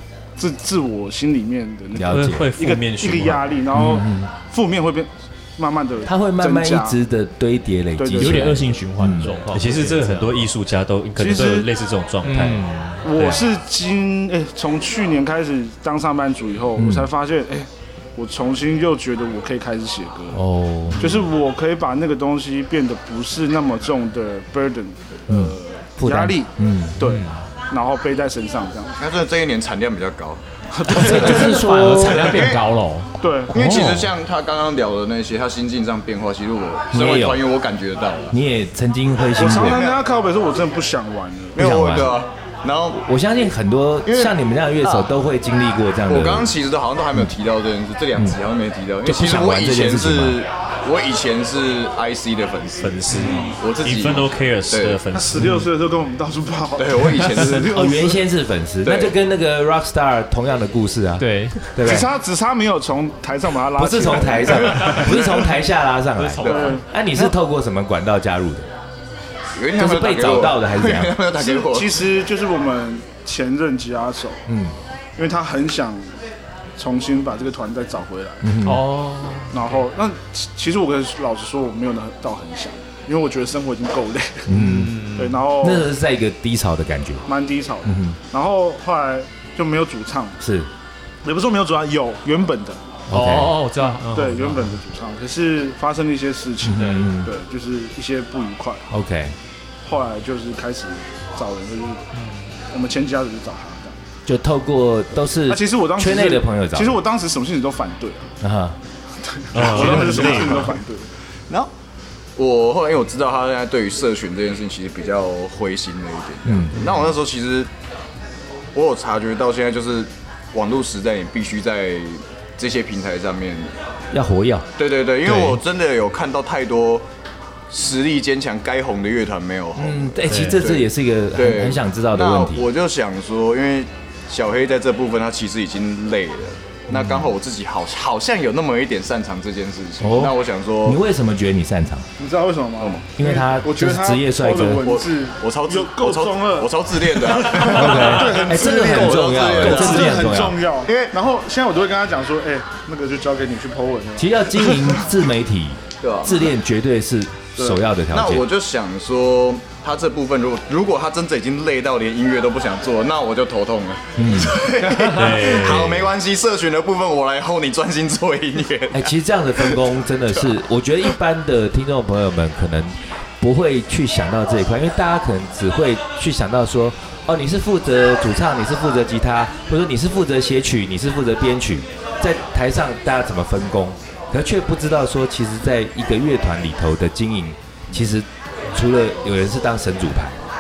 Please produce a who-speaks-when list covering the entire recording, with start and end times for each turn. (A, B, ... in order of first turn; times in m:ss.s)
0:00.4-0:07.0 A
0:02.0-0:02.5 B
0:02.1-0:03.6 C
0:03.7-0:04.3 B
0:06.0-0:09.4 B
0:08.0-0:08.7 A
0:08.2-0:10.5 D
0:09.5-0:13.4 C
0:11.2-0:11.7 A
0:12.2-0:13.0 D
0:13.0-0:20.4 A
0:16.8-0:17.1 B
0:20.3-0:21.0 B
0:20.9-0:21.2 D
0:21.0-0:29.0 A
0:25.3-0:27.0 B
0:27.0-0:27.4 D
0:29.0-0:30.4 E
0:30.7-0:31.5 A
0:30.9-0:32.4 B
0:30.9-0:33.1 D
0:31.9-0:32.6 E
0:33.2-0:33.5 A
0:33.5-0:34.1 B
0:33.5-0:38.4 E
0:36.9-0:37.4 B
0:38.3-0:39.8 B
0:39.4-0:41.6 A
0:39.5-0:40.0 E
0:41.6-0:43.0 E
0:41.6-0:42.2 B
0:42.9-0:46.5 B
0:44.1-0:45.1 E
0:46.1-0:55.0 E
0:49.0-0:50.4 B
0:52.8-0:55.4 C
0:53.1-0:53.4 D
0:55.1-0:58.2 A
0:56.8-0:57.7 E
0:57.7-1:02.1 B
0:58.8-0:59.1 E
1:01.2-1:01.7 D
1:01.8-1:05.5 A
1:03.8-1:08.7 B
1:04.8-1:05.0 D
1:06.2-1:06.8 D
1:06.4-1:06.7 E
1:06.5-1:07.2 A
1:09.6-1:12.0 E
1:09.8-1:11.2 B
1:11.4-1:14.4 A
1:14.5-1:14.8 B
1:15.2-1:16.1 A
1:16.8-1:18.5 A
1:18.4-1:18.8 B
1:18.6-1:19.7 D
1:19.5-1:24.5 A
1:24.5-1:25.0 B
1:24.5-1:25.4 D
1:25.2-1:25.9 A
1:25.6-1:27.2 B
1:27.3-1:30.4 A
1:27.8-1:28.2 B
1:30.4-1:30.7 B
1:31.2-1:32.8 A
1:33.1-1:33.6 B
1:33.1-1:34.8 D
1:34.0-1:38.8 A
1:36.6-1:37.3 B
1:38.9-1:39.4 B
1:39.8-1:42.0 A
1:42.1-1:42.5 D
1:42.7-1:44.0 A
1:44.3-1:47.0 B
1:45.5-1:48.3 A
1:48.4-1:48.8 B
1:49.3-1:51.1 A
1:49.5-1:50.8 C
1:52.4-1:57.7 E
1:56.4-1:56.8 B
1:58.7-2:03.7 E
2:04.1-2:04.7 B
2:04.8-2:07.0 E
2:05.2-2:05.6 D
2:07.7-2:21.0 E
2:09.8-2:12.6 B
2:10.3-2:10.6 D
2:16.9-2:17.3 B
2:20.0-2:22.1 B
2:22.2-2:26.7 A
2:22.8-2:23.0 E
2:23.2-2:24.9 B
2:24.7-2:31.1 E
2:27.2-2:35.0 A
2:27.6-2:30.6 B
2:34.2-2:38.5 B
2:36.0-2:36.5 E
2:38.1-2:49.8 E
2:44.2-2:44.6 B
2:45.1-2:46.1 C
2:48.9-3:10.4 B